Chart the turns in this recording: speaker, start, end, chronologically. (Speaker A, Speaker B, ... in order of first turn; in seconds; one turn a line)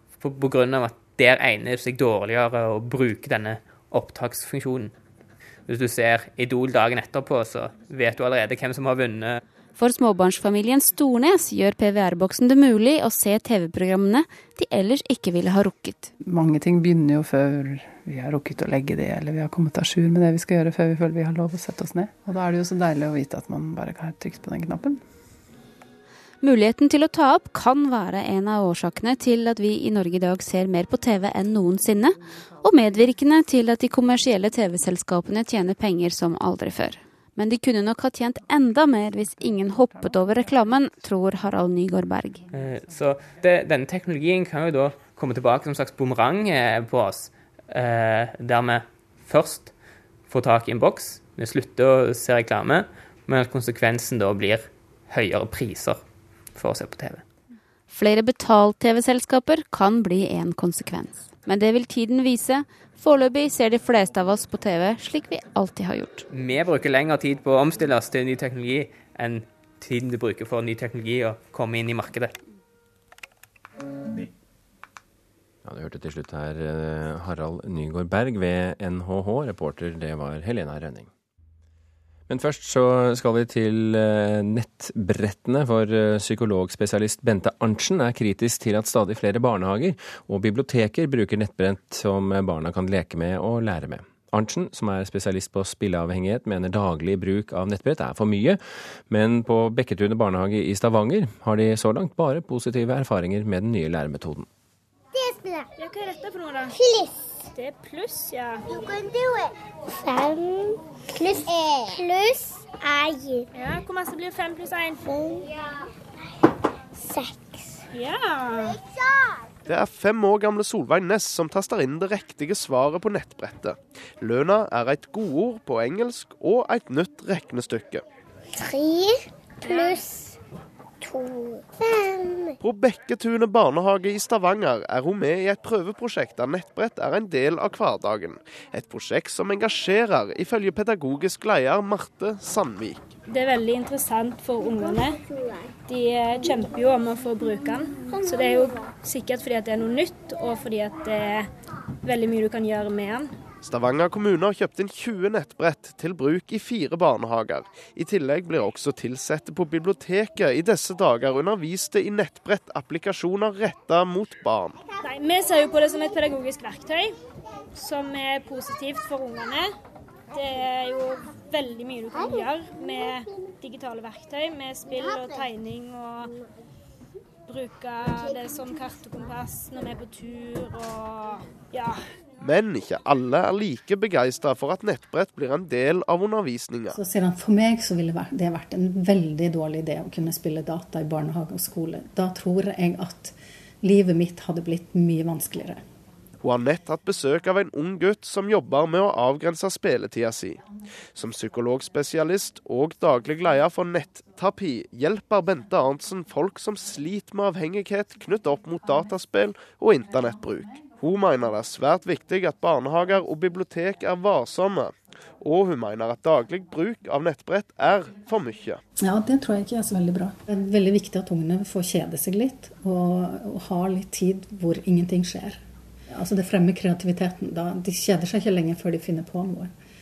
Speaker A: 0.2-4.9
Speaker A: 5.7-9.4
Speaker B: 9.8-16.1
Speaker C: 16.2-25.0
Speaker B: 26.4-42.4
Speaker A: 42.5-49.7
Speaker A: 50.3-56.0
Speaker A: 56.5-57.2
Speaker B: 57.9-66.2
Speaker A: 66.3-72.3
Speaker D: 75.6-81.1
Speaker D: 82.3-104.5
Speaker E: 105.1-105.7
Speaker F: 105.8-106.7
Speaker E: 106.7-107.2
Speaker F: 107.6-108.6
Speaker E: 108.7-113.5
Speaker F: 113.5-115.0
Speaker E: 115.1-115.5
Speaker E: 117.0-117.8
Speaker F: 117.9-118.7
Speaker E: 118.7-119.0
Speaker G: 119.7-128.0
Speaker E: 128.6-130.4
Speaker F: 129.7-130.0
Speaker E: 131.0-132.6
Speaker G: 132.6-143.1
Speaker F: 143.3-145.1
Speaker F: 145.9-151.4
Speaker F: 152.0-153.2
Speaker G: 153.6-164.8
Speaker F: 165.0-167.1
Speaker F: 167.8-169.7
Speaker F: 170.3-176.3
Speaker F: 177.5-181.9
Speaker G: 182.4-187.0
Speaker H: 186.9-195.8
Speaker G: 196.4-200.6
Speaker G: 201.1-218.8
Speaker H: 219.0-229.7